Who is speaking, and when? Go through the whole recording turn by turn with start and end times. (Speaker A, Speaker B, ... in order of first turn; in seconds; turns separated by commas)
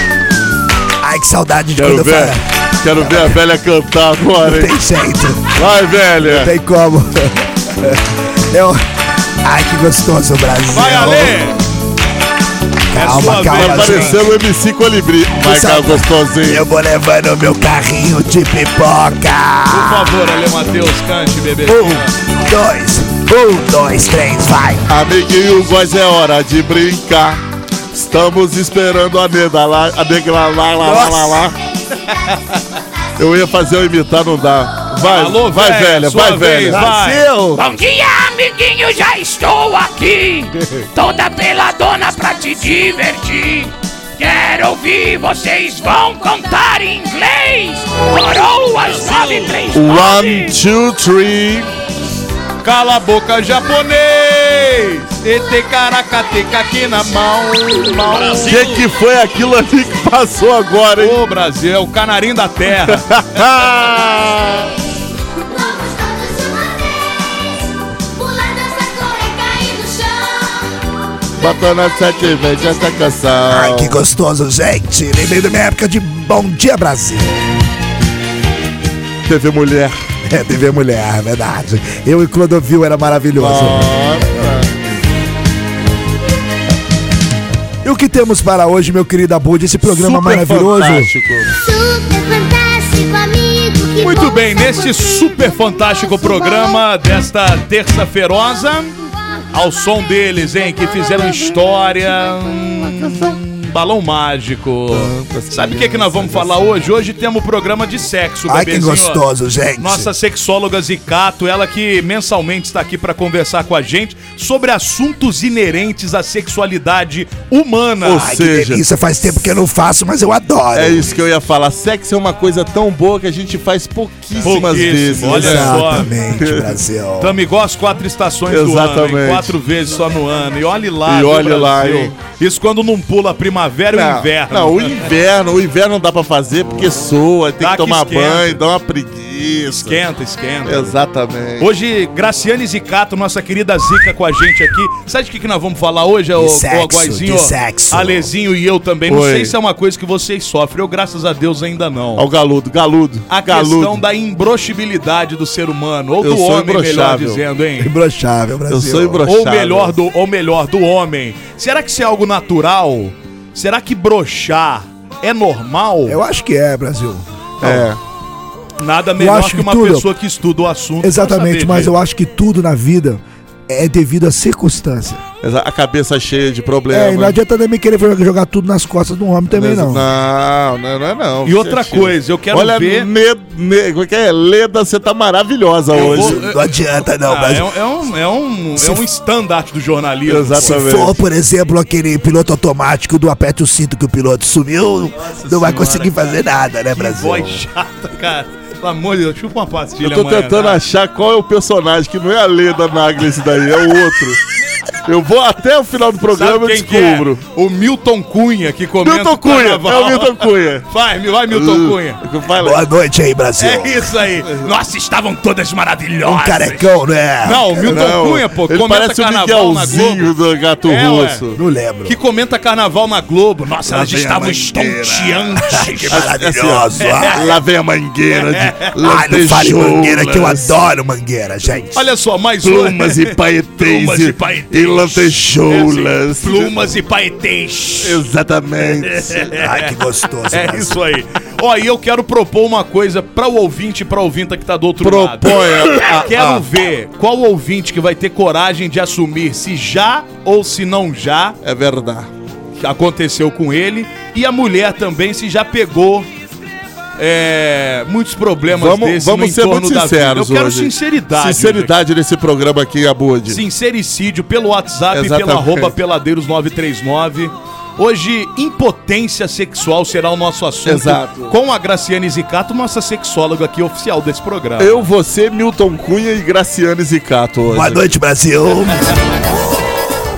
Speaker A: 1.0-2.4, Speaker B: 1.8-4.7, Speaker A: 3.0-3.3, Speaker A: 4.4-5.5, Speaker B: 5.5-6.5, Speaker A: 6.2-8.8, Speaker A: 9.4-11.4, Speaker C: 10.7-11.6, Speaker A: 12.9-14.2, Speaker C: 12.9-14.2, Speaker B: 13.4-16.6, Speaker A: 15.3-20.1, Speaker C: 19.7-22.1, Speaker A: 21.7-24.9, Speaker B: 24.9-27.4, Speaker B: 27.9-31.6, Speaker A: 30.8-31.4, Speaker D: 31.8-32.4, Speaker B: 33.2-37.6, Speaker C: 35.0-37.2, Speaker A: 36.7-37.6, Speaker E: 37.6-40.3, Speaker E: 41.1-43.5, Speaker E: 44.2-50.4, Speaker C: 49.0-49.9, Speaker B: 49.7-51.7, Speaker C: 52.6-58.8, Speaker B: 58.3-61.2, Speaker C: 61.0-63.1, Speaker B: 62.8-64.7, Speaker D: 64.1-64.7, Speaker D: 65.4-70.8, Speaker B: 71.4-74.0, Speaker A: 73.5-77.3, Speaker B: 79.2-80.0, Speaker A: 80.2-83.9, Speaker B: 83.3-84.8, Speaker A: 87.8-91.1, Speaker B: 89.8-91.5, Speaker D: 91.6-96.8, Speaker C: 94.0-98.9, Speaker C: 99.5-109.2, Speaker B: 102.2-103.4, Speaker B: 104.9-106.8, Speaker A: 108.5-110.1, Speaker C: 109.8-118.3, Speaker B: 118.0-118.8, Speaker A: 118.1-121.1, Speaker B: 120.7-126.8, Speaker C: 124.4-126.1, Speaker A: 125.2-127.4, Speaker C: 127.2-135.1, Speaker B: 128.5-129.5, Speaker B: 131.1-132.1, Speaker B: 133.9-140.0, Speaker C: 137.6-138.6, Speaker C: 139.7-140.9, Speaker B: 140.6-141.7, Speaker C: 141.6-152.2, Speaker A: 146.3-148.3, Speaker B: 149.1-149.5, Speaker B: 152.2-154.0, Speaker C: 153.3-157.9, Speaker B: 156.2-157.4, Speaker A: 157.8-159.2, Speaker B: 158.7-159.9, Speaker C: 159.2-166.2, Speaker A: 166.1-167.2, Speaker B: 167.6-168.0, Speaker C: 168.8-171.9, Speaker A: 169.2-170.1, Speaker A: 171.0-175.2, Speaker B: 175.4-177.4, Speaker A: 176.9-180.0, Speaker B: 179.5-186.4, Speaker C: 181.4-183.1, Speaker C: 185.9-186.6, Speaker A: 185.9-187.7, Speaker C: 187.2-190.8, Speaker B: 190.3-191.2, Speaker A: 190.6-197.6, Speaker C: 195.3-196.4, Speaker C: 196.9-200.8, Speaker B: 200.0-204.4, Speaker B: 205.0-207.4, Speaker C: 206.3-212.2, Speaker B: 209.0-210.8, Speaker B: 211.5-212.8, Speaker A: 212.6-214.2, Speaker C: 213.6-216.8, Speaker A: 216.2-218.1, Speaker C: 217.4-220.3, Speaker B: 217.8-221.6, Speaker C: 220.8-221.4, Speaker A: 221.6-222.2, Speaker C: 222.0-226.3, Speaker A: 223.9-227.5, Speaker B: 224.2-224.4, Speaker B: 226.1-230.7, Speaker C: 227.0-227.4, Speaker C: 228.3-228.8, Speaker A: 229.0-232.0, Speaker C: 231.9-238.2, Speaker B: 232.6-236.7, Speaker B: 238.0-239.4, Speaker C: 238.8-240.0, Speaker A: 239.5-240.9, Speaker C: 240.5-251.6, Speaker B: 245.0-246.6, Speaker B: 251.6-252.3, Speaker C: 252.8-256.3, Speaker C: 257.2-261.9, Speaker B: 258.7-263.6, Speaker C: 263.5-275.1, Speaker B: 265.1-265.9, Speaker B: 270.9-271.5, Speaker B: 274.8-278.1, Speaker A: 277.7-279.0